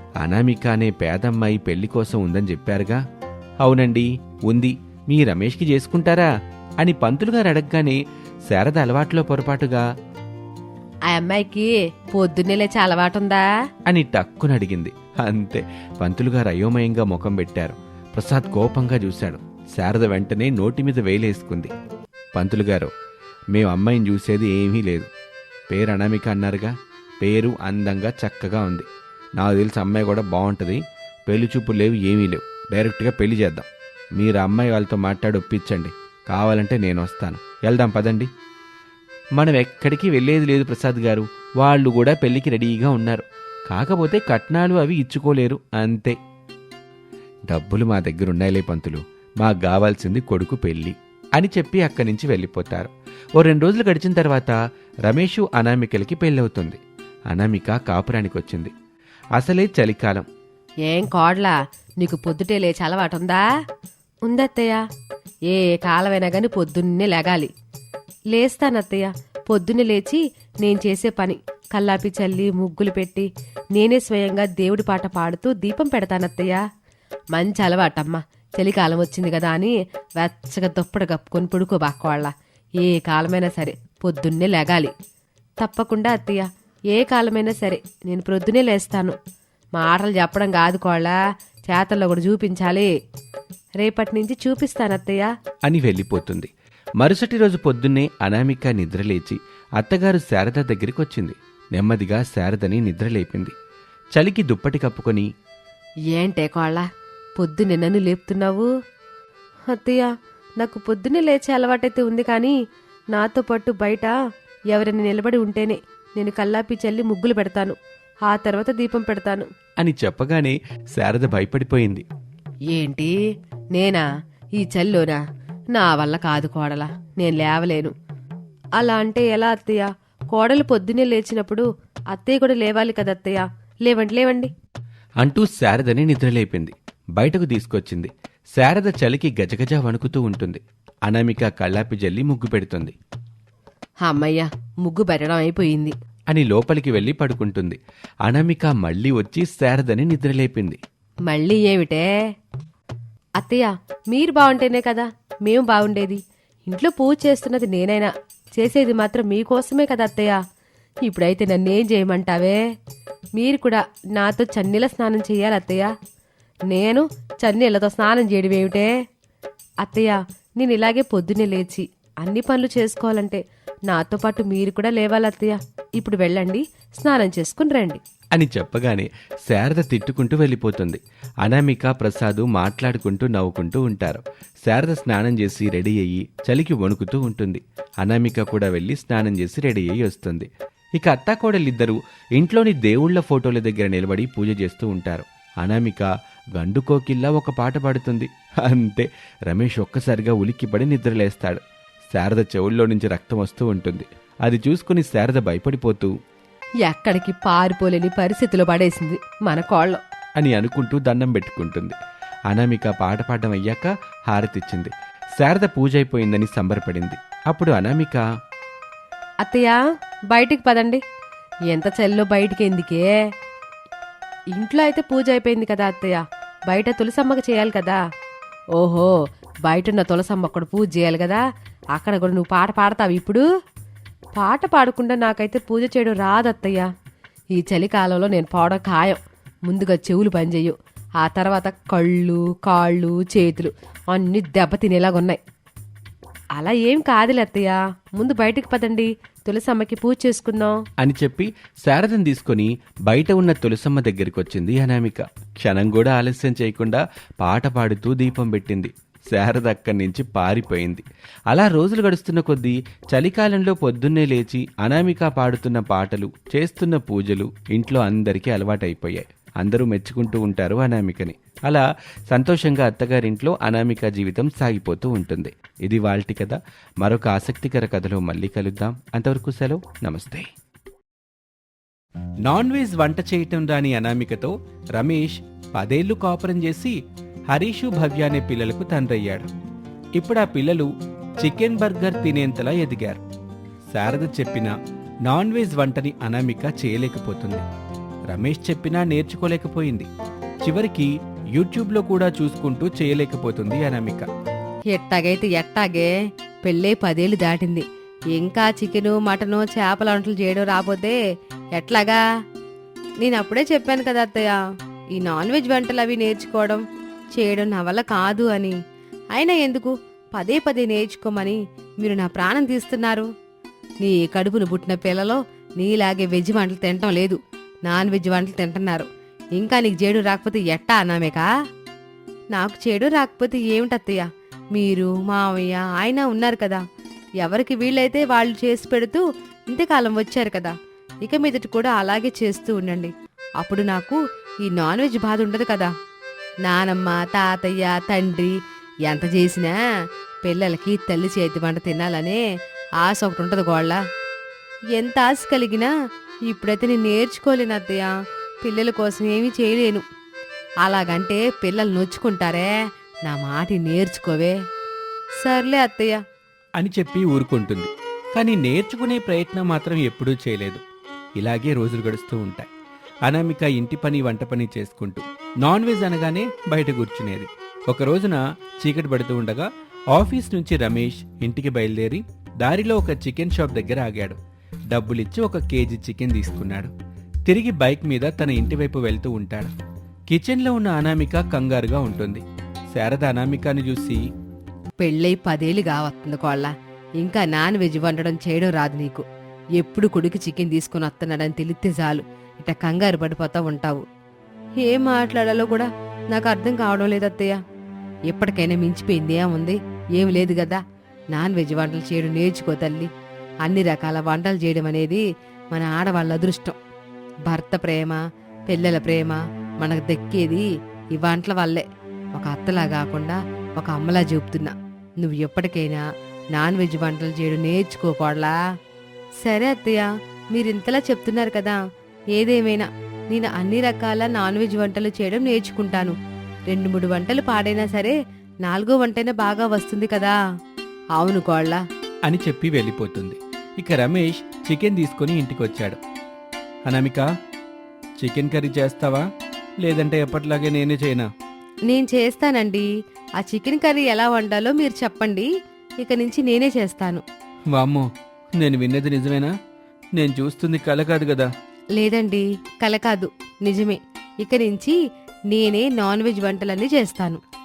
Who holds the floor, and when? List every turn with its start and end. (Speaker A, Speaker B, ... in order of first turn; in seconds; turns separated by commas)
Speaker A: 0.2-3.0, Speaker A: 3.6-6.3, Speaker A: 6.8-9.8, Speaker B: 11.1-13.4, Speaker A: 13.9-21.7, Speaker A: 22.3-22.9, Speaker A: 23.5-25.1, Speaker A: 25.7-28.9, Speaker A: 29.4-33.7, Speaker A: 34.2-38.3, Speaker A: 39.4-46.1, Speaker A: 47.5-54.5, Speaker A: 55.1-56.8, Speaker A: 57.3-58.7, Speaker A: 59.4-60.2, Speaker B: 60.9-63.4, Speaker B: 64.3-64.8, Speaker B: 65.5-67.5, Speaker B: 68.3-76.6, Speaker B: 77.3-84.9, Speaker B: 85.6-89.1, Speaker B: 89.8-91.2, Speaker B: 91.7-92.9, Speaker B: 93.8-95.3, Speaker A: 95.7-103.5, Speaker A: 104.1-105.3, Speaker B: 106.1-106.8, Speaker B: 107.4-108.7, Speaker B: 109.7-110.1, Speaker B: 110.6-112.5, Speaker B: 113.1-114.1, Speaker B: 114.7-117.8, Speaker B: 118.3-119.5, Speaker A: 119.8-122.0, Speaker B: 122.7-123.2, Speaker B: 123.7-124.0, Speaker B: 124.6-125.2, Speaker B: 125.7-127.9, Speaker B: 128.8-134.5, Speaker A: 135.2-142.9, Speaker B: 144.1-145.9, Speaker A: 146.3-150.8, Speaker B: 151.3-152.1, Speaker B: 153.4-160.4, Speaker B: 161.0-162.6, Speaker B: 163.4-165.9, Speaker B: 166.7-168.9, Speaker B: 169.8-178.0, Speaker A: 178.3-201.6, Speaker A: 202.1-206.1, Speaker B: 206.8-210.0, Speaker A: 210.4-211.9, Speaker A: 212.5-218.2, Speaker B: 219.4-219.8, Speaker B: 220.3-221.0, Speaker B: 221.7-223.1, Speaker B: 224.5-228.0, Speaker B: 228.8-229.1, Speaker B: 229.6-231.4, Speaker B: 231.9-233.4, Speaker B: 234.3-236.8, Speaker B: 237.6-245.4, Speaker B: 246.6-250.8, Speaker A: 251.0-280.5, Speaker A: 282.5-286.9, Speaker A: 287.5-289.5, Speaker A: 290.2-290.9, Speaker A: 291.4-293.2, Speaker A: 293.9-294.7, Speaker A: 295.3-297.6, Speaker A: 298.3-300.1, Speaker A: 300.6-304.3, Speaker C: 304.9-306.1, Speaker C: 306.6-311.2, Speaker C: 311.8-312.2, Speaker C: 313.2-314.6, Speaker C: 315.1-316.8, Speaker C: 317.3-318.7, Speaker C: 319.3-323.3, Speaker C: 324.0-331.5, Speaker C: 332.5-336.8, Speaker C: 337.4-345.9, Speaker C: 346.6-348.5, Speaker C: 349.1-349.8, Speaker C: 350.4-352.4, Speaker C: 353.0-354.0, Speaker C: 354.9-355.9, Speaker C: 356.5-358.1, Speaker C: 358.6-360.0, Speaker C: 360.8-362.7, Speaker C: 363.2-364.6, Speaker C: 365.4-366.2, Speaker A: 366.8-370.8, Speaker A: 371.4-372.7, Speaker A: 373.3-384.4, Speaker A: 384.9-386.9, Speaker A: 387.5-389.7, Speaker A: 390.3-394.2, Speaker C: 395.0-399.2, Speaker C: 399.8-404.0, Speaker C: 404.8-407.6, Speaker C: 408.3-410.8, Speaker C: 411.3-413.1, Speaker C: 413.6-416.8, Speaker C: 417.5-421.8, Speaker C: 422.3-428.5, Speaker C: 429.4-431.8, Speaker C: 432.3-436.1, Speaker C: 436.7-440.4, Speaker C: 441.2-441.8, Speaker A: 442.3-446.0, Speaker A: 446.9-447.2, Speaker A: 448.2-449.2, Speaker A: 449.8-451.3, Speaker C: 451.9-452.9, Speaker C: 453.4-455.5, Speaker C: 456.0-457.2, Speaker A: 457.7-459.5, Speaker A: 460.1-461.5, Speaker C: 461.9-465.0, Speaker C: 465.5-467.4